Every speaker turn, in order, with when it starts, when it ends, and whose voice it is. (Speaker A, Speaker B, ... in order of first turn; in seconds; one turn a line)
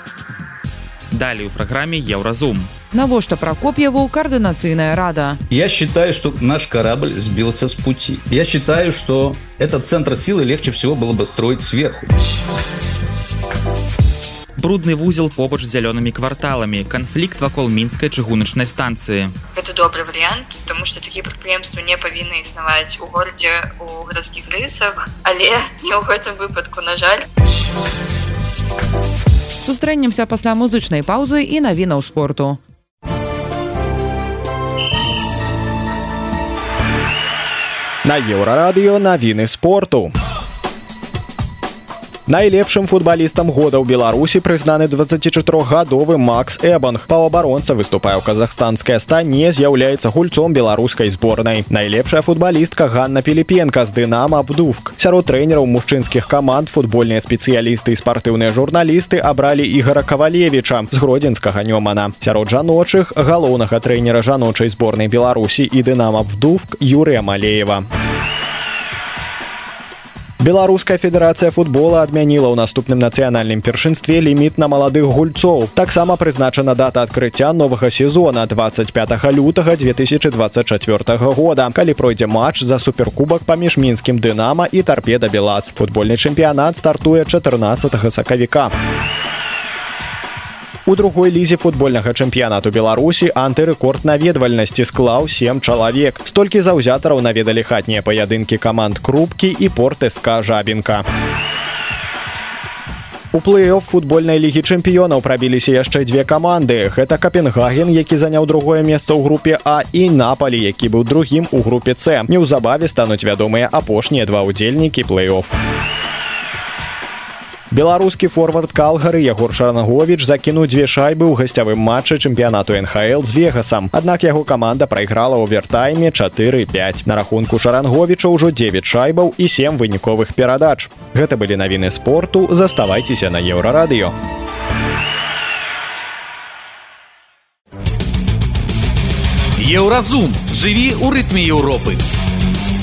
Speaker A: 1.1-2.7
Speaker B: 2.9-5.4
Speaker C: 5.5-12.2
Speaker A: 14.6-19.3
Speaker D: 19.5-27.2
Speaker B: 29.6-32.6
Speaker E: 38.0-40.1
Speaker E: 42.3-67.8
Speaker E: 70.4-88.7
Speaker E: 90.8-101.0
Speaker E: 103.3-115.5
Speaker E: 117.7-134.1
Speaker F: 139.6-142.0